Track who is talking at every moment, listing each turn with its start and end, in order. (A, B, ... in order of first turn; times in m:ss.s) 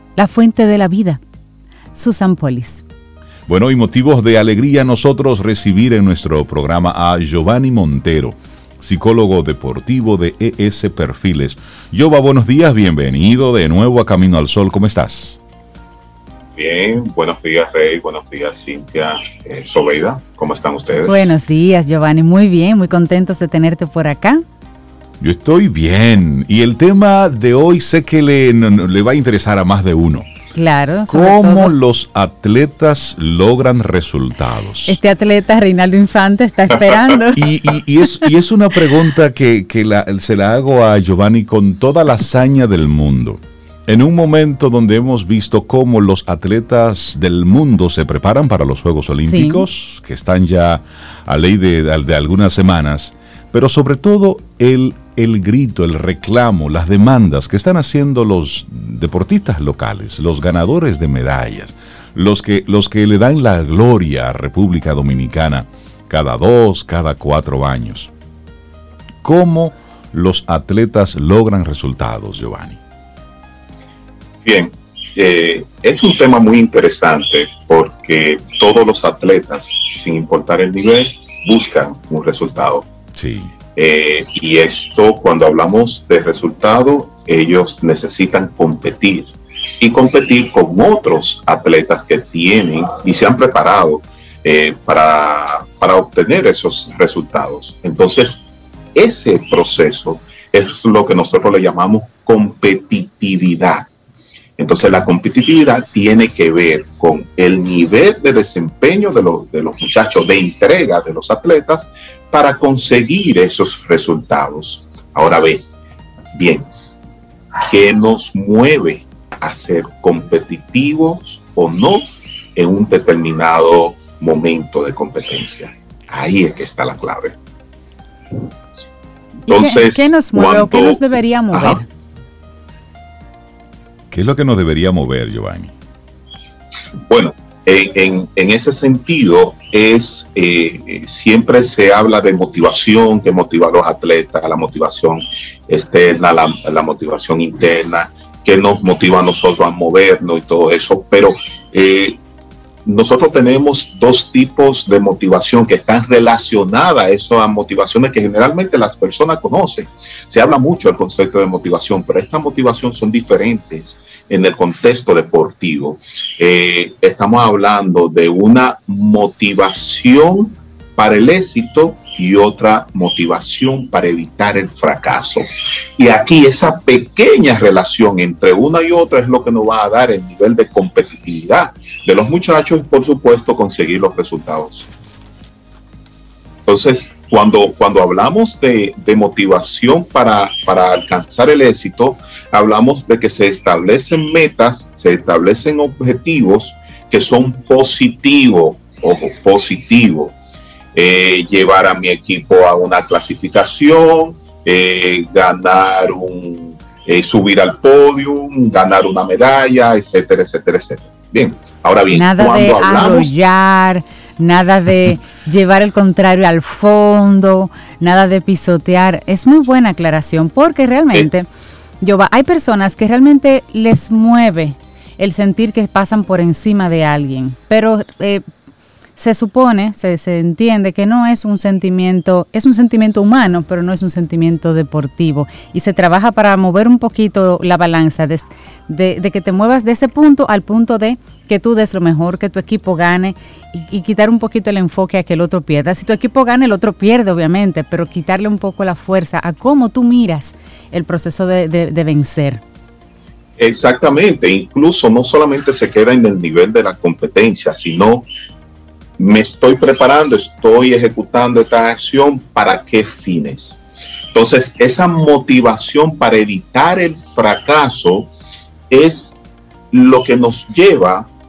0:00.2-0:01.2 A
0:01.9-0:02.8 A
0:03.5-0:15.4 B
0:16.6-0:21.3 C
0:21.0-0:24.4 A
0:25.2-0:30.3 B
0:30.5-0:31.7 A
0:31.1-0:35.0 B
0:34.8-0:37.5 A
0:36.9-0:37.2 C
0:37.3-1:08.1 B
0:49.3-0:49.6 A
1:09.2-1:12.8 B
1:14.4-1:22.9 C
1:23.1-1:23.5 B
1:23.7-1:43.9 C
1:44.6-1:55.6 C
1:56.3-1:56.6 C
1:57.6-2:07.4 C
2:09.5-2:11.8 C
2:09.5-2:11.8 A
2:14.1-2:15.7 B
2:17.1-2:32.2 C
2:32.8-3:04.9 C
3:06.6-3:20.3 C
3:20.9-3:33.3 C
3:32.1-3:41.5 A
3:42.0-3:48.4 A
3:49.2-4:12.6 A
4:13.6-4:18.3 C
4:19.2-4:23.8 C
4:24.3-4:28.3 C
4:28.9-4:29.4 C
4:29.9-4:31.3 C